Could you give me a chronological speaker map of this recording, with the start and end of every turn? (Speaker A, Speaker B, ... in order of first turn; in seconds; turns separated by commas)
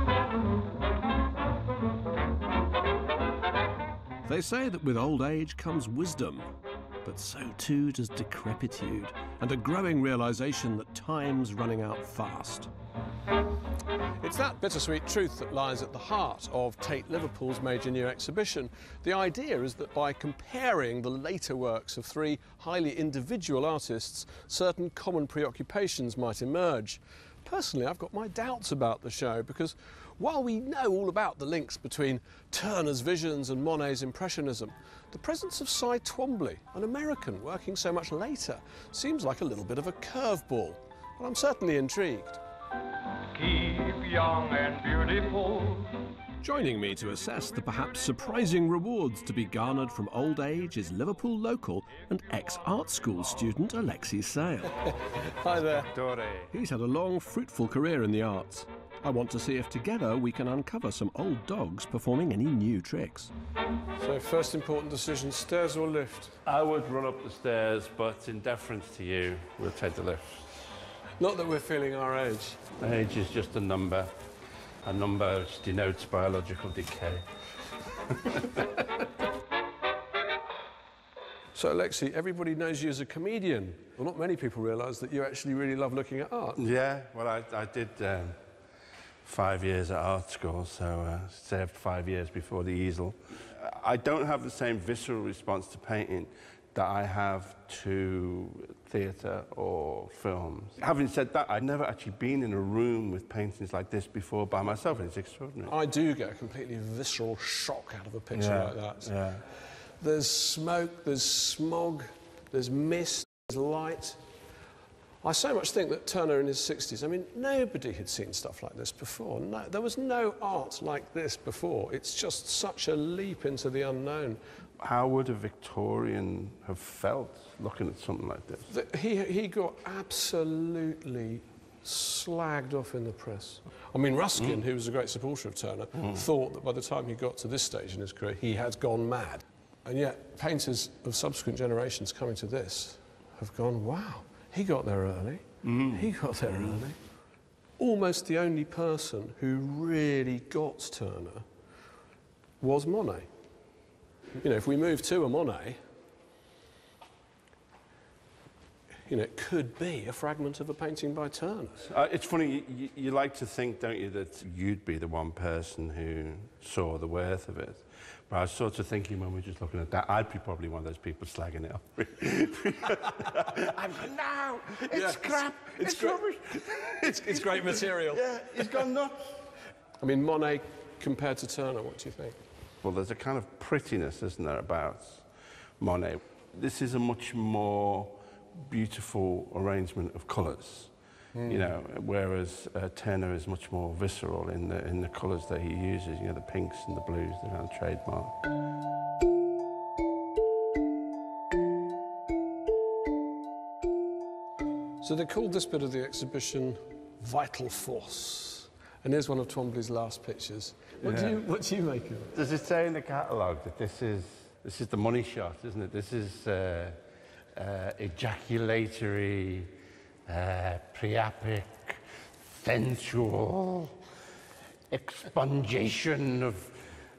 Speaker A: 4.2-6.5, Speaker A: 7.0-12.7, Speaker A: 14.2-42.4, Speaker B: 43.3-45.9, Speaker A: 46.4-55.9, Speaker C: 55.9-56.5, Speaker A: 56.5-63.3, Speaker A: 64.0-66.4, Speaker C: 66.5-70.6, Speaker A: 71.2-72.6, Speaker C: 72.8-74.1, Speaker C: 74.8-77.2, Speaker C: 78.1-78.8, Speaker A: 81.5-86.6, Speaker C: 86.6-88.4, Speaker C: 89.2-105.7, Speaker A: 105.7-114.2, Speaker C: 108.3-109.4, Speaker A: 115.2-124.4, Speaker C: 124.8-128.7, Speaker A: 128.7-147.0, Speaker C: 145.7-146.1, Speaker A: 147.8-151.4, Speaker A: 152.6-153.3, Speaker A: 154.4-155.8, Speaker A: 159.1-161.9, Speaker C: 161.9-179.4, Speaker A: 174.9-178.9, Speaker A: 180.0-182.4, Speaker C: 182.8-185.3, Speaker C: 185.8-190.9, Speaker C: 191.4-198.4, Speaker A: 205.0-212.4, Speaker C: 211.0-211.4, Speaker C: 212.3-217.0, Speaker C: 217.6-219.7, Speaker C: 220.3-224.0, Speaker C: 224.9-226.9